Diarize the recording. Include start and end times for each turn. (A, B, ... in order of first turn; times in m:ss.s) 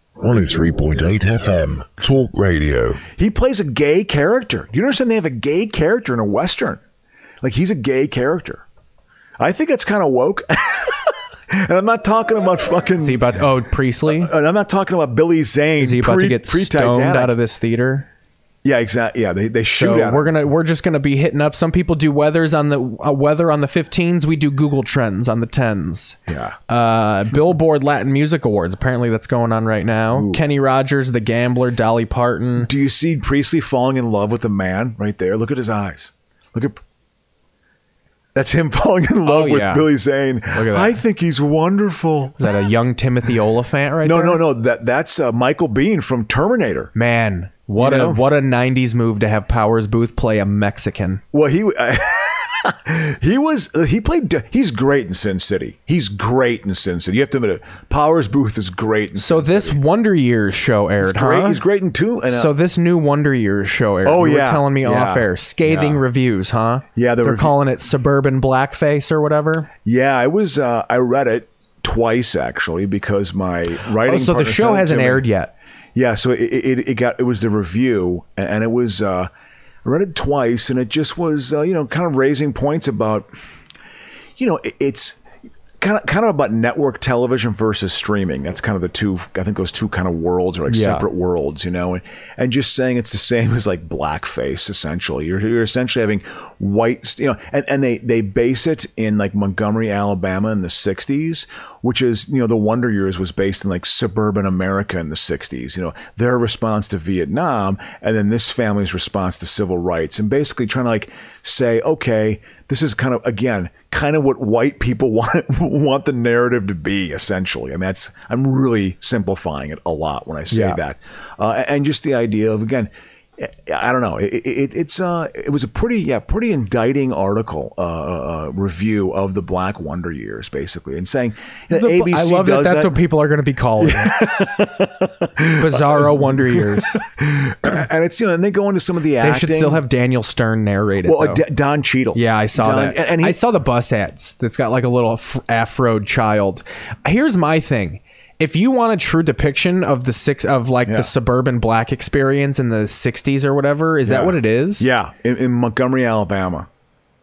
0:00.2-0:03.0 A
0:03.1-0:06.8 B
0:07.4-0:08.6 B
0:09.4-0:13.4 B
0:13.0-0:14.3 C
0:14.0-0:17.3 B
0:15.8-0:18.1 C
0:18.6-0:20.3 B
0:19.7-0:26.2 C
0:26.3-0:26.6 B
0:26.7-0:32.7 C
0:30.1-0:30.4 B
0:32.6-0:36.8 B
0:38.3-0:42.4 B
0:39.2-0:39.9 C
0:40.5-0:41.0 C
0:42.4-0:44.4 C
0:44.0-0:46.9 B
0:46.9-0:51.2 C
0:47.8-0:48.2 B
0:51.3-0:59.8 B
0:59.2-1:01.6 C
1:01.0-1:02.5 B
1:02.3-1:09.7 C
1:04.0-1:06.0 B
1:06.9-1:07.5 B
1:09.8-1:15.2 B
1:14.0-1:15.5 C
1:15.9-1:19.3 B
1:19.8-1:23.3 B
1:24.4-1:25.2 B
1:25.8-2:13.0 B
1:30.7-1:31.0 C
2:00.5-2:00.8 C
2:11.7-2:14.2 C
2:13.8-2:19.8 B
2:15.6-2:17.0 C
2:19.2-2:21.4 C
2:21.0-2:23.4 B
2:22.1-2:34.9 C
2:30.8-2:31.1 B
2:34.0-2:36.7 B